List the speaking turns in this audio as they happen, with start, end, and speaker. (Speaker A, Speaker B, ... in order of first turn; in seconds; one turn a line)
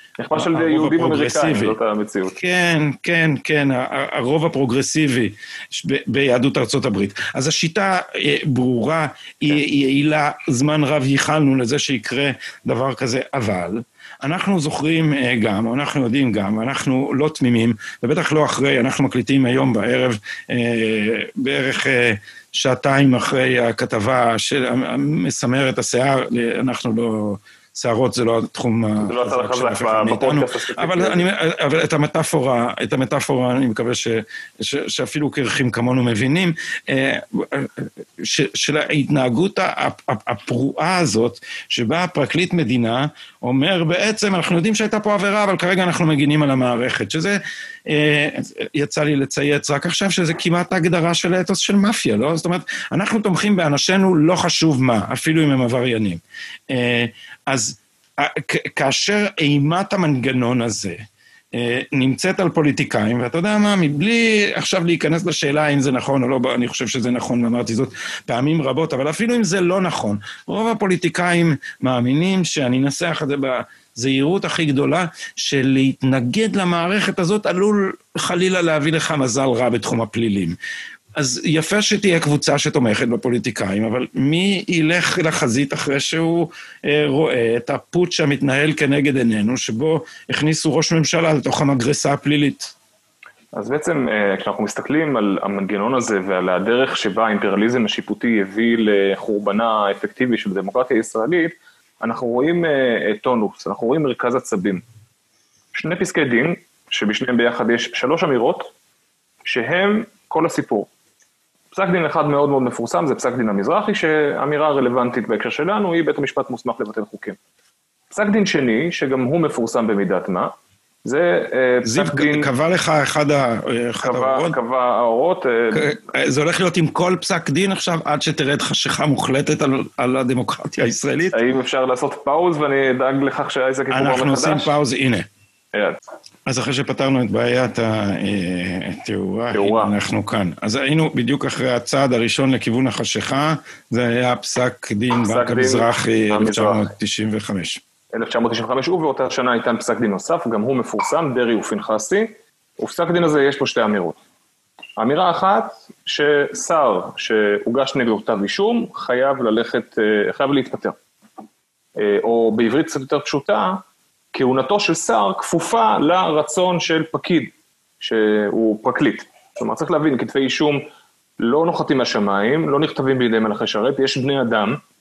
Speaker A: 0.2-2.4
Speaker B: 0.3-1.8
Speaker B: 2.3-61.0
Speaker A: 29.0-31.2
Speaker B: 61.5-80.5
Speaker B: 81.2-92.7
Speaker A: 93.5-104.8
Speaker A: 105.7-108.7
Speaker A: 109.5-110.9
Speaker A: 111.7-117.4
Speaker A: 118.1-120.5
Speaker A: 121.0-122.5
Speaker B: 121.8-124.5
Speaker A: 124.0-126.0
Speaker B: 125.7-131.4
Speaker A: 131.3-134.8
Speaker B: 133.9-135.3
Speaker A: 135.7-136.0
Speaker B: 136.4-147.8
Speaker A: 139.5-139.9
Speaker A: 145.1-146.9
Speaker A: 148.1-154.2
Speaker A: 155.0-160.9
Speaker A: 162.0-163.8
Speaker A: 164.3-170.8
Speaker A: 171.4-174.8